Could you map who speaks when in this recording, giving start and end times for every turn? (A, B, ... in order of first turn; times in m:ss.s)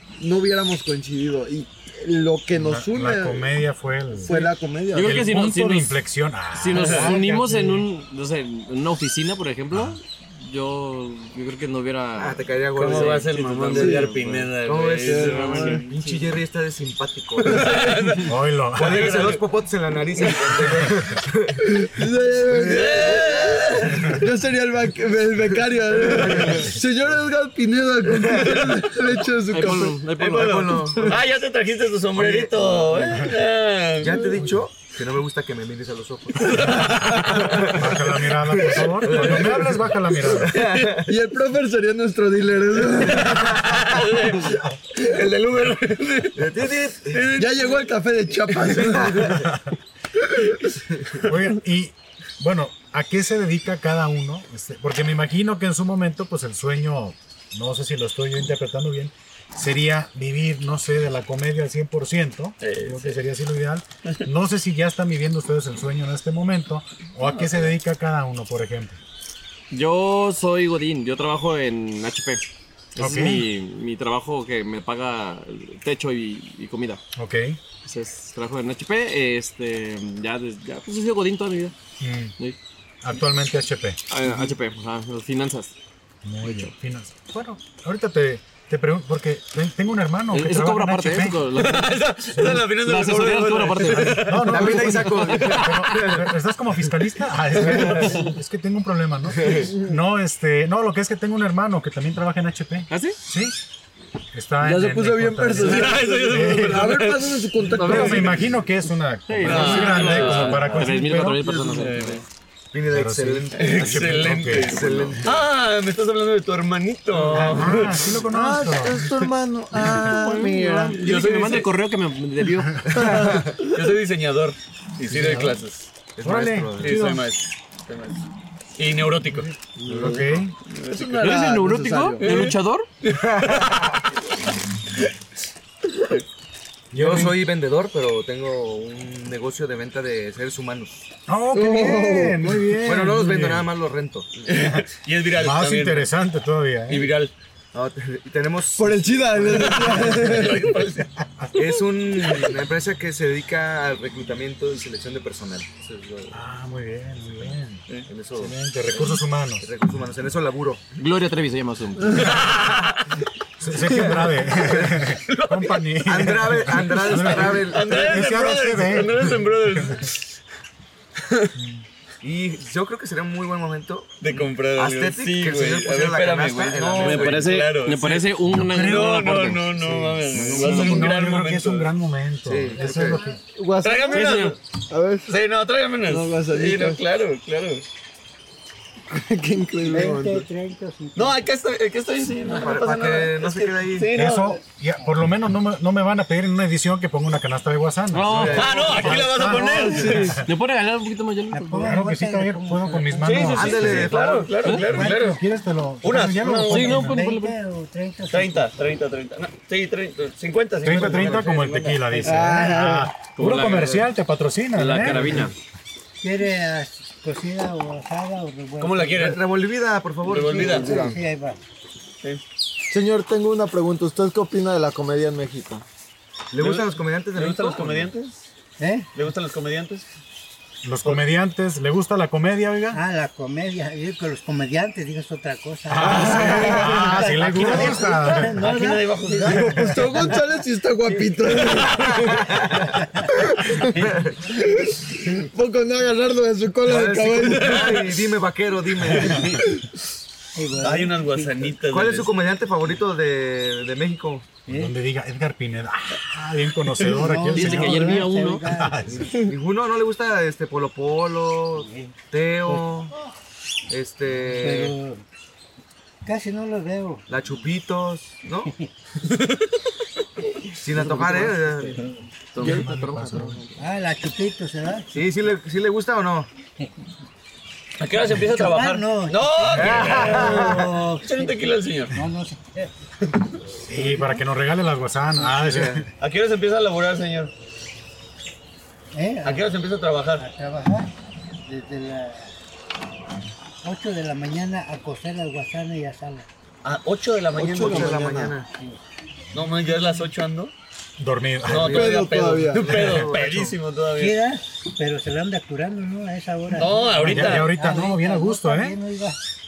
0:00.2-0:03.6 A
0:02.5-0:07.9 B
0:04.1-0:05.2 A
0:04.9-0:06.0 C
0:06.5-0:14.5 C
0:06.7-0:07.1 D
0:09.7-0:10.0 B
0:12.2-0:13.8 E
0:12.8-0:16.3 D
0:13.7-0:14.1 A
0:14.6-0:18.0 E
0:15.0-0:15.8 A
0:17.4-0:19.4 D
0:17.6-0:18.2 A
0:18.2-0:19.2 B
0:18.7-0:21.6 E
0:20.2-0:20.8 D
0:21.6-0:30.0 A
0:22.5-0:24.0 D
0:22.7-0:23.4 E
0:26.0-0:26.7 E
0:29.5-0:30.9 C
0:30.2-0:31.2 E
0:30.3-0:34.3 D
0:32.1-0:33.3 E
0:34.0-0:41.1 E
0:36.4-0:37.7 D
0:37.6-0:40.5 B
0:39.0-0:39.7 D
0:40.4-0:41.0 D
0:41.0-0:45.1 A
0:42.9-0:47.8 D
0:46.4-0:47.3 E
0:47.4-0:49.5 A
0:48.5-0:49.0 D
0:49.0-0:49.4 E
0:49.3-0:49.7 B
0:50.2-0:50.6 A
0:51.2-1:09.0 B
1:02.6-1:03.2 D
1:07.2-1:07.7 D
1:09.7-1:17.0 C
1:13.0-1:13.5 B
1:17.2-1:17.6 B
1:17.8-1:21.7 C
1:22.0-1:22.3 B
1:23.0-1:24.5 B
1:24.1-1:25.7 C
1:26.2-1:31.5 B
1:26.4-1:26.7 C
1:30.3-1:34.4 C
1:31.6-1:34.8 D
1:32.4-1:32.6 B
1:34.0-1:43.6 B
1:34.4-1:36.3 E
1:37.9-1:38.1 A
1:42.9-1:43.2 C
1:44.3-1:47.0 B
1:44.6-1:48.5 A
1:45.6-1:48.4 D
1:47.7-1:51.4 B
1:49.3-1:52.2 C
1:49.4-1:50.9 D
1:51.4-1:51.9 A
1:51.8-1:52.2 D
1:52.7-1:55.4 E
1:52.9-1:55.2 B
1:53.5-1:58.2 D
1:57.3-1:59.0 B
1:58.2-2:01.0 A
1:59.9-2:01.7 D
2:00.2-2:02.8 C
2:02.8-2:03.6 E
2:02.9-2:03.5 A
2:03.2-2:05.9 D
2:05.1-2:05.6 B
2:06.2-2:07.1 E
2:06.2-2:07.2 B
2:06.8-2:08.2 D
2:08.8-2:09.5 D
2:09.4-2:10.5 B
2:09.8-2:10.3 A
2:09.9-2:10.3 E
2:10.6-2:11.3 D
2:10.9-2:12.4 A
2:11.1-2:12.9 C
2:12.2-2:12.6 D
2:13.1-2:14.0 E
2:13.4-2:13.9 D
2:16.9-2:17.4 B
2:16.9-2:21.0 E
2:21.3-2:23.7 B
2:21.5-2:22.8 A
2:22.8-2:24.5 E
2:24.5-2:26.1 D
2:25.3-2:27.1 B
2:26.9-2:27.3 D
2:27.7-2:30.0 E
2:28.8-2:30.7 A
2:29.4-2:31.1 D
2:31.5-2:36.4 E
2:32.2-2:32.5 D
2:36.3-2:37.8 B
2:37.3-2:40.8 E
2:38.3-2:39.6 B
2:41.0-2:42.4 C
2:42.1-2:43.1 D
2:43.6-2:50.0 B
2:43.8-2:45.1 E
2:45.2-2:45.9 D
2:46.0-2:48.1 E
2:47.0-2:50.4 D
2:51.2-2:51.5 D
2:51.6-2:51.8 B
2:52.2-2:57.5 E
2:54.2-3:01.9 D
2:57.0-2:59.7 C
2:58.5-3:03.4 B
3:00.4-3:00.9 A
3:00.6-3:00.9 C
3:02.4-3:03.2 E
3:02.8-3:03.4 F
3:03.5-3:05.3 A
3:03.8-3:04.6 D
3:04.1-3:04.6 C
3:05.3-3:07.8 D
3:06.0-3:07.0 A
3:09.1-3:10.5 A
3:09.9-3:11.4 F
3:11.1-3:14.6 D
3:12.4-3:14.1 E
3:14.1-3:20.4 B
3:18.1-3:22.0 C
3:18.2-3:19.4 E
3:18.4-3:20.4 D
3:19.6-3:20.2 F
3:21.5-3:23.8 F
3:21.8-3:24.1 B
3:23.2-3:25.4 D
3:23.5-3:24.8 E
3:24.8-3:27.2 B
3:24.9-3:25.4 F
3:26.0-3:27.0 D
3:26.7-3:27.6 C
3:26.7-3:28.7 F
3:28.3-3:32.4 D
3:30.8-3:35.5 B
3:30.9-3:31.7 E
3:32.2-3:33.1 A
3:33.4-3:34.0 C
3:33.4-3:34.0 D
3:34.7-3:35.5 C
3:36.2-3:39.4 F
3:38.8-3:39.4 D
3:39.2-3:40.7 E
3:40.2-3:41.2 D
3:40.4-3:41.6 F
3:40.5-3:41.2 A
3:42.9-3:45.8 A
3:46.5-3:48.1 E
3:46.6-3:48.4 D
3:48.8-3:49.1 F
3:49.1-3:50.0 D
3:50.8-3:53.0 B
3:52.9-4:00.4 F
3:55.9-3:58.6 B
3:56.0-3:58.0 A
3:58.2-3:59.8 D
3:59.4-4:02.5 A
3:59.5-4:00.0 B
4:01.9-4:02.9 E
4:02.8-4:03.3 F
4:03.3-4:03.9 A
4:04.0-4:04.4 E
4:04.5-4:07.9 A
4:05.2-4:05.5 F
4:06.8-4:09.6 E
4:07.3-4:08.2 D
4:09.2-4:09.8 A
4:10.5-4:11.8 F
4:10.8-4:12.4 D
4:11.9-4:14.5 E
4:14.7-4:14.9 F
4:14.7-4:19.3 B
4:17.0-4:19.2 F
4:17.5-4:18.6 C
4:19.1-4:23.1 E
4:21.8-4:22.8 F
4:23.9-4:24.9 E
4:24.6-4:25.2 F
4:26.2-4:27.2 F
4:27.3-4:28.7 E
4:29.2-4:29.7 D
4:30.8-4:32.0 E
4:30.9-4:32.0 C
4:32.0-4:32.2 F
4:32.5-4:33.8 C
4:32.6-4:33.6 B
4:33.8-4:35.1 F
4:35.1-4:36.5 E
4:38.0-4:42.2 D
4:38.3-4:41.6 F
4:39.7-4:40.3 B
4:39.8-4:40.9 E
4:42.1-4:42.9 F
4:43.7-4:46.0 B
4:43.9-4:44.4 F
4:45.4-4:45.7 F
4:45.6-4:46.1 E
4:46.2-4:47.5 D
4:49.1-4:49.7 F
4:49.4-4:50.4 D
4:50.4-4:51.1 F
4:51.6-4:52.5 F
4:53.8-4:56.4 F
4:56.8-4:58.2 D
4:57.5-4:58.6 A
4:57.6-4:58.7 E
4:59.5-5:00.7 D
5:01.2-5:02.1 B
5:01.6-5:04.4 D
5:01.7-5:03.8 E
5:01.7-5:03.3 A
5:04.2-5:09.4 F
5:06.7-5:07.7 D
5:07.2-5:09.0 B